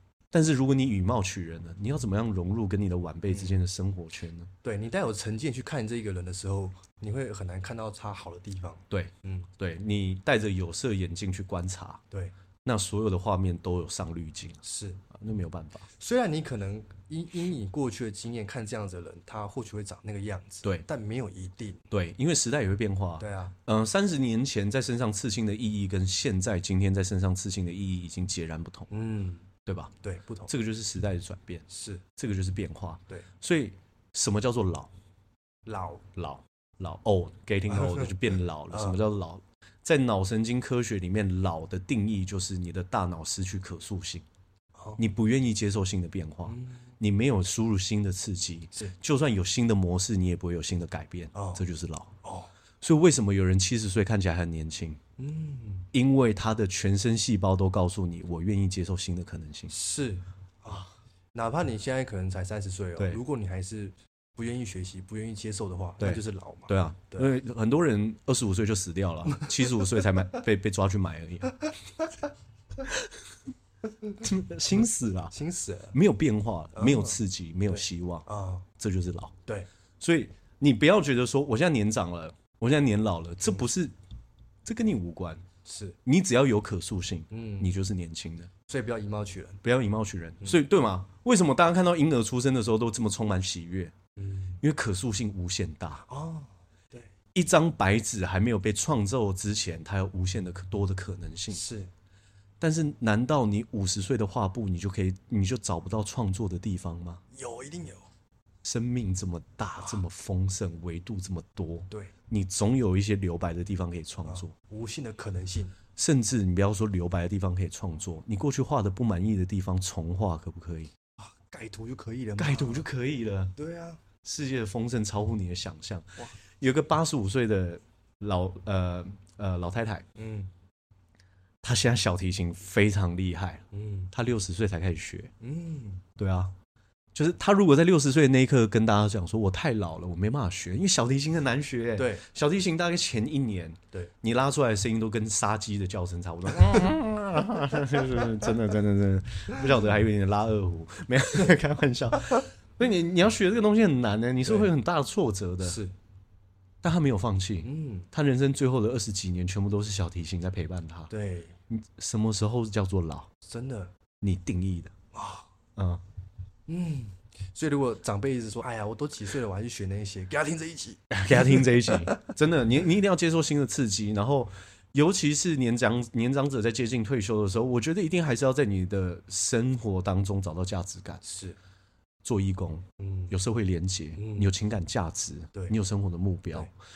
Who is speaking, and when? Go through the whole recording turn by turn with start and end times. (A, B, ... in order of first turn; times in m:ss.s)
0:00.3-0:04.5 A
0:03.3-0:03.6 B
0:04.6-0:09.5 B
0:08.9-0:12.0 A
0:12.6-0:15.9 A
0:14.6-0:15.0 B
0:16.0-0:21.8 B
0:21.9-0:28.9 A
0:23.2-0:23.5 B
0:28.9-0:29.5 B
0:29.6-0:29.9 A
0:30.0-0:30.5 B
0:30.5-0:31.6 A
0:31.7-0:32.0 B
0:32.2-0:34.9 A
0:35.6-0:36.0 B
0:36.2-0:44.2 A
0:37.7-0:38.2 B
0:38.7-0:39.0 B
0:45.0-0:52.1 A
0:46.4-0:46.8 B
0:51.3-0:51.6 B
0:52.2-0:52.5 B
0:52.8-0:55.0 A
0:55.2-0:55.9 B
0:55.9-0:59.7 A
0:59.7-1:07.3 B
1:06.0-1:11.7 A
1:12.8-1:13.1 A
1:14.2-1:15.3 A
1:15.3-1:16.0 B
1:15.9-1:18.2 A
1:16.7-1:18.6 B
1:18.8-1:19.3 A
1:20.0-1:23.9 A
1:24.6-1:25.4 A
1:25.6-1:26.0 B
1:26.0-1:28.5 A
1:27.3-1:27.7 B
1:28.7-1:29.6 B
1:29.6-1:33.9 A
1:34.2-1:34.6 B
1:34.6-1:36.0 A
1:36.1-1:37.1 B
1:37.3-1:41.6 A
1:41.5-1:41.9 B
1:42.6-1:47.2 A
1:47.3-1:48.1 B
1:48.6-1:54.5 A
1:54.2-1:55.7 B
1:56.0-2:00.9 A
2:01.2-2:02.8 B
2:02.4-2:03.5 A
2:03.6-2:04.0 B
2:04.2-2:10.0 A
2:10.2-2:10.5 B
2:11.6-2:15.3 A
2:13.7-2:14.1 B
2:15.4-2:16.0 B
2:16.2-2:16.5 A
2:17.1-2:35.8 A
2:22.0-2:22.2 B
2:34.4-2:34.7 B
2:35.6-2:35.9 B
2:36.8-2:41.1 A
2:37.6-2:38.1 B
2:41.1-2:41.6 B
2:41.7-2:43.3 A
2:43.4-2:43.9 B
2:44.2-2:44.9 A
2:45.1-2:45.5 B
2:45.8-2:46.0 A
2:46.7-2:52.3 B
2:51.1-3:01.2 A
3:01.2-3:01.6 B
3:02.2-3:06.7 A
3:03.0-3:03.3 B
3:04.2-3:04.5 B